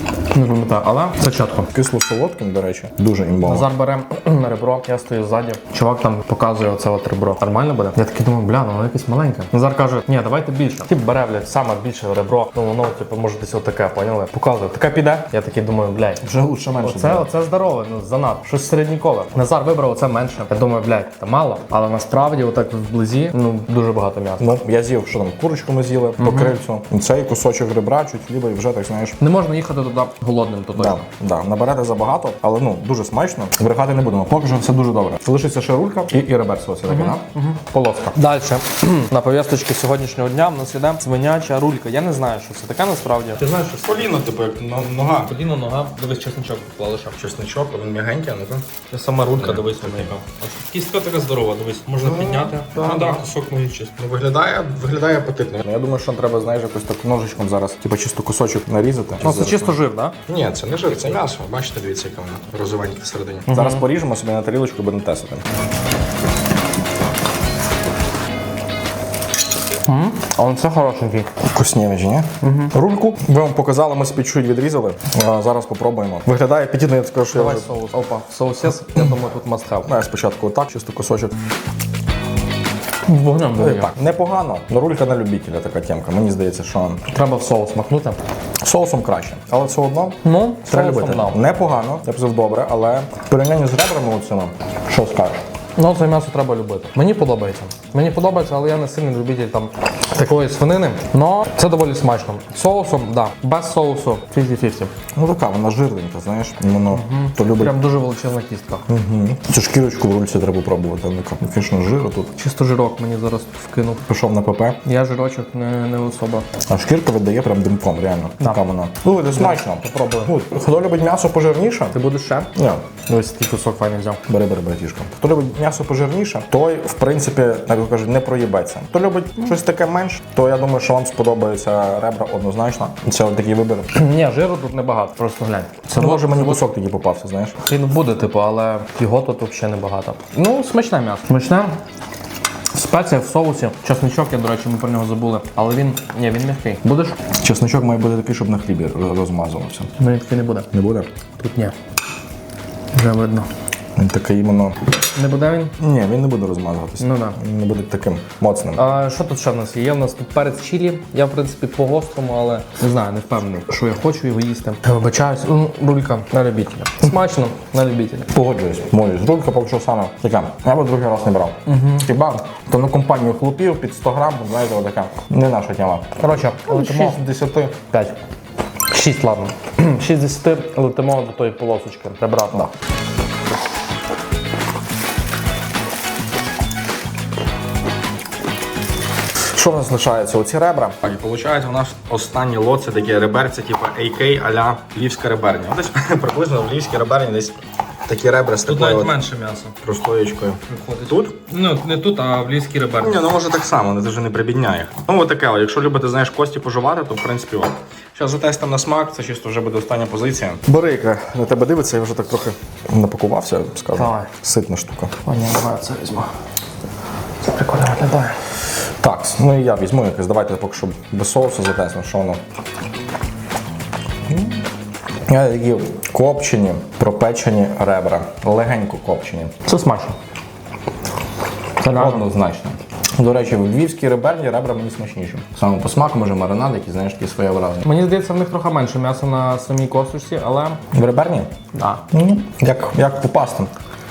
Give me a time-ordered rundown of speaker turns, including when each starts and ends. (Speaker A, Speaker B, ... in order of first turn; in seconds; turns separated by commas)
Speaker A: 0.3-1.7, Speaker B: 1.7-3.7, Speaker A: 3.4-16.2, Speaker B: 16.2-17.2, Speaker A: 16.8-24.5, Speaker B: 24.4-29.2, Speaker A: 26.2-26.5, Speaker A: 29.2-31.0, Speaker B: 30.8-37.2, Speaker A: 36.9-43.7, Speaker B: 37.8-38.1, Speaker B: 43.4-45.3, Speaker A: 45.2-47.2, Speaker B: 47.1-48.7, Speaker A: 48.9-53.6, Speaker B: 49.3-50.1, Speaker B: 52.0-59.8, Speaker A: 59.2-60.2, Speaker B: 60.3-65.4, Speaker A: 63.5-63.9, Speaker A: 69.8-71.3, Speaker B: 71.4-77.7, Speaker A: 72.4-72.8, Speaker A: 77.3-79.9, Speaker B: 79.8-81.3, Speaker A: 83.0-83.9, Speaker B: 83.6-87.0, Speaker A: 87.1-88.2, Speaker B: 88.6-95.4, Speaker A: 90.2-91.4, Speaker A: 95.8-104.9, Speaker B: 105.1-107.8, Speaker A: 106.9-108.8, Speaker B: 108.9-112.3, Speaker A: 112.4-114.0, Speaker B: 114.0-114.8, Speaker A: 114.8-116.5, Speaker B: 116.7-122.0, Speaker A: 119.3-120.3, Speaker A: 121.9-122.5, Speaker B: 122.5-122.8, Speaker A: 123.1-124.2, Speaker B: 124.3-133.9, Speaker A: 133.9-136.6, Speaker B: 135.9-137.6, Speaker A: 137.6-141.8, Speaker A: 142.7-147.2, Speaker B: 147.4-149.9, Speaker A: 150.0-150.7, Speaker B: 150.7-151.1, Speaker A: 151.4-151.8, Speaker A: 152.9-153.5, Speaker B: 154.0-154.8, Speaker A: 155.1-155.8, Speaker B: 155.8-158.9, Speaker A: 157.0-157.4, Speaker A: 158.8-168.3, Speaker B: 168.3-177.8, Speaker A: 171.7-172.1, Speaker A: 176.2-177.2, Speaker A: 177.9-178.2, Speaker A: 178.9-182.7, Speaker B: 189.5-199.1, Speaker A: 198.7-199.8, Speaker B: 199.8-201.4, Speaker A: 200.7-203.3, Speaker B: 203.0-215.1, Speaker A: 213.9-214.3, Speaker A: 215.2-216.3, Speaker A: 217.4-218.5, Speaker B: 219.0-222.4, Speaker B: 225.3-229.5, Speaker A: 229.7-230.2, Speaker A: 231.8-232.3, Speaker B: 231.9-237.8, Speaker A: 237.8-240.8, Speaker B: 240.9-241.5, Speaker A: 241.7-242.0, Speaker B: 242.1-243.7